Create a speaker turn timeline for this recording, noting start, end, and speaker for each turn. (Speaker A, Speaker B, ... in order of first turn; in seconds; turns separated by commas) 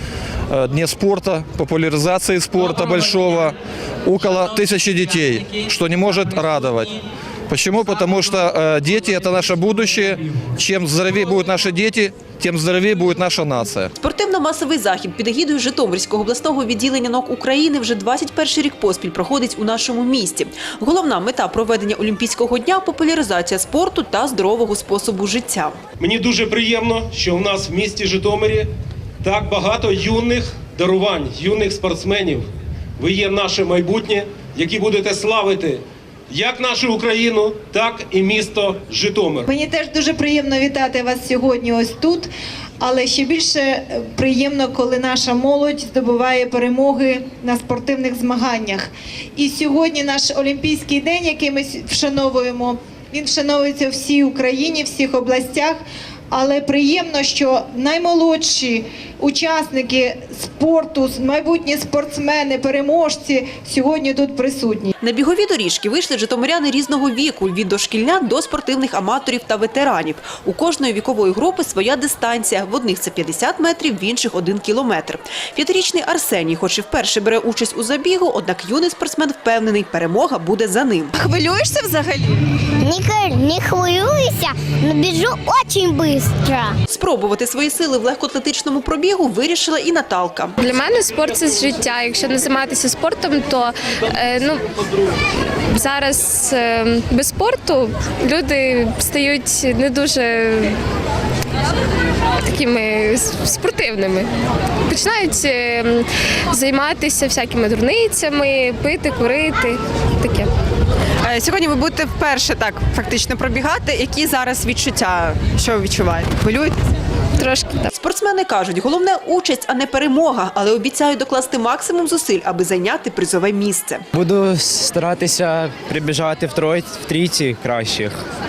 Speaker A: 0.5-7.0, Speaker A: 7.5-13.9, Speaker B: 14.0-25.8, Speaker C: 26.0-28.7, Speaker C: 29.2-32.5, Speaker C: 33.0-39.5, Speaker D: 39.5-64.9, Speaker B: 65.0-81.1, Speaker E: 81.2-82.4, Speaker F: 82.8-86.8, Speaker B: 86.9-90.6, Speaker G: 90.6-94.7, Speaker G: 95.7-100.8, Speaker G: 102.4-104.3, Speaker G: 104.9-110.5, Speaker E: 111.2-116.8, Speaker G: 117.4-117.9, Speaker B: 117.9-124.0, Speaker H: 124.2-128.2